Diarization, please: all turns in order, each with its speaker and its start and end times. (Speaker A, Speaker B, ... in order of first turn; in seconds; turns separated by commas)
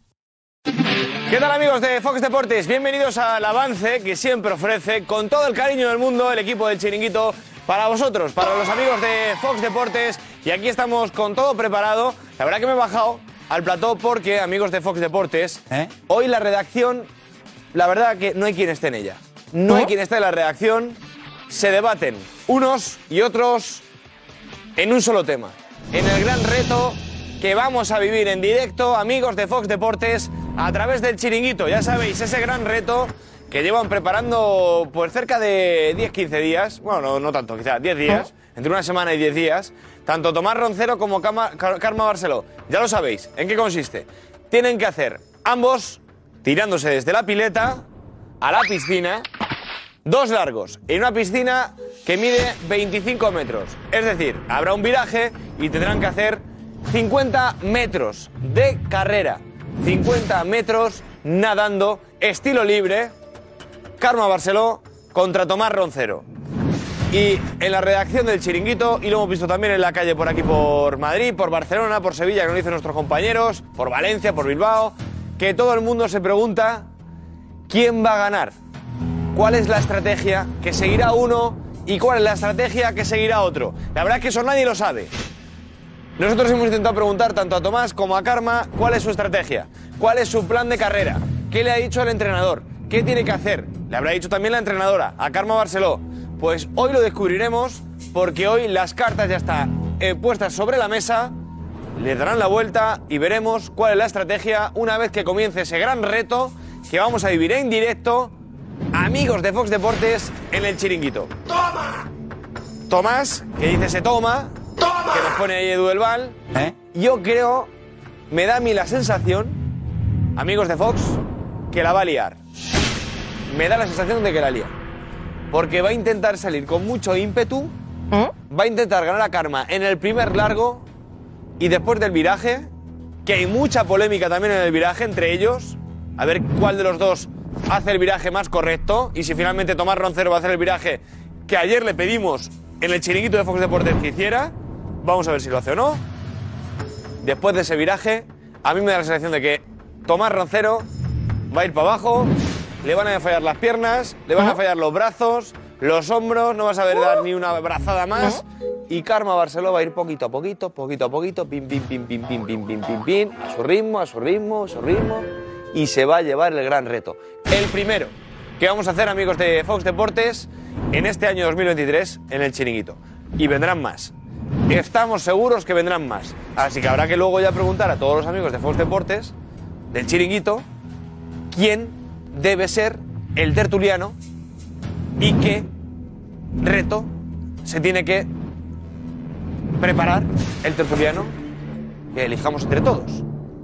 Speaker A: 1.3-17.1, Speaker A: 17.7-21.0, Speaker A: 21.5-23.9, Speaker A: 24.8-47.9, Speaker A: 48.4-49.3, Speaker A: 50.0-63.1, Speaker A: 64.0-66.3, Speaker A: 67.1-76.9, Speaker A: 77.7-78.5, Speaker A: 79.3-85.1, Speaker A: 86.2-101.3, Speaker A: 102.0-108.3, Speaker A: 108.9-111.3, Speaker A: 112.9-114.5, Speaker A: 115.1-116.4, Speaker A: 116.9-117.7, Speaker A: 118.3-119.6, Speaker A: 120.4-121.2, Speaker A: 121.7-122.4, Speaker A: 123.5-124.7, Speaker A: 125.5-127.7, Speaker A: 128.5-130.9, Speaker A: 131.6-132.7, Speaker A: 133.2-146.0, Speaker A: 147.2-150.9, Speaker A: 151.5-174.1, Speaker A: 174.7-179.3, Speaker A: 179.9-180.7, Speaker A: 181.5-184.2, Speaker A: 185.2-185.7, Speaker A: 186.6-187.1, Speaker A: 187.7-188.3, Speaker A: 189.8-191.3, Speaker A: 192.1-193.2